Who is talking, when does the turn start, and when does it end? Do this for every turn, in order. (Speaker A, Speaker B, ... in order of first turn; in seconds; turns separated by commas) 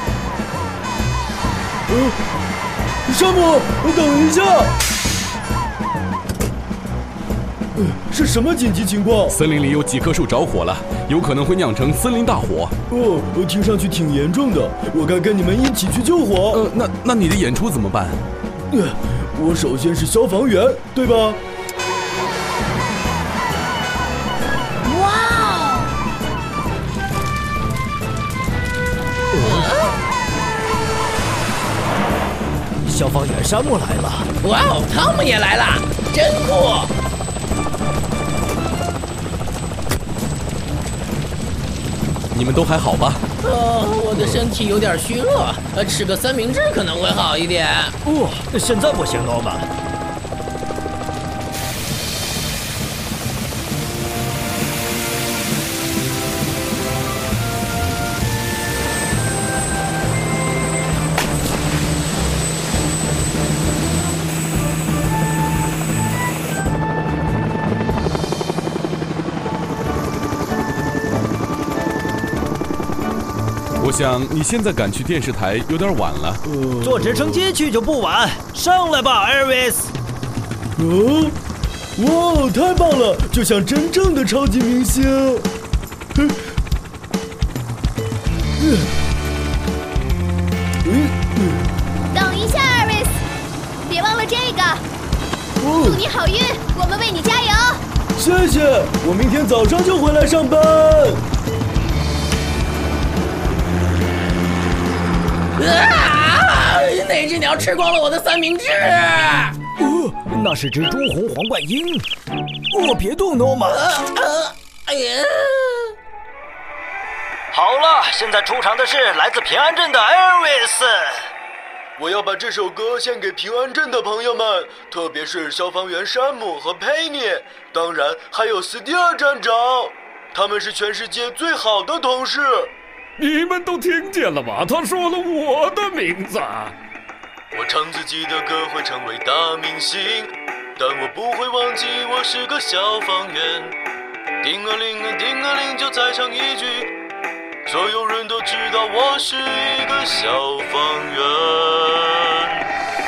Speaker A: 1.9-2.2, Speaker A: 3.1-4.8, Speaker A: 7.8-9.4, Speaker B: 9.3-12.7, Speaker A: 12.9-16.7, Speaker B: 16.5-18.2, Speaker A: 18.7-21.4, Speaker C: 24.9-25.9, Speaker C: 29.4-30.0, Speaker D: 32.9-34.3, Speaker C: 34.4-36.9, Speaker B: 42.3-43.2, Speaker C: 43.4-47.9, Speaker D: 48.0-49.7, Speaker B: 73.8-76.4, Speaker A: 76.5-77.4, Speaker D: 76.8-79.9, Speaker A: 80.8-81.3, Speaker A: 82.0-85.5, Speaker A: 86.1-86.4, Speaker A: 88.6-88.9, Speaker A: 90.8-91.7, Speaker E: 92.1-93.1, Speaker E: 93.8-94.8, Speaker A: 95.6-96.0, Speaker E: 95.8-97.8, Speaker A: 98.2-101.2, Speaker C: 105.6-109.6, Speaker D: 109.8-112.0, Speaker D: 112.7-113.9, Speaker C: 113.7-115.9, Speaker D: 117.5-121.2, Speaker A: 122.0-132.7, Speaker F: 133.2-136.7, Speaker A: 137.5-143.7, Speaker A: 144.4-146.9, Speaker A: 147.7-152.5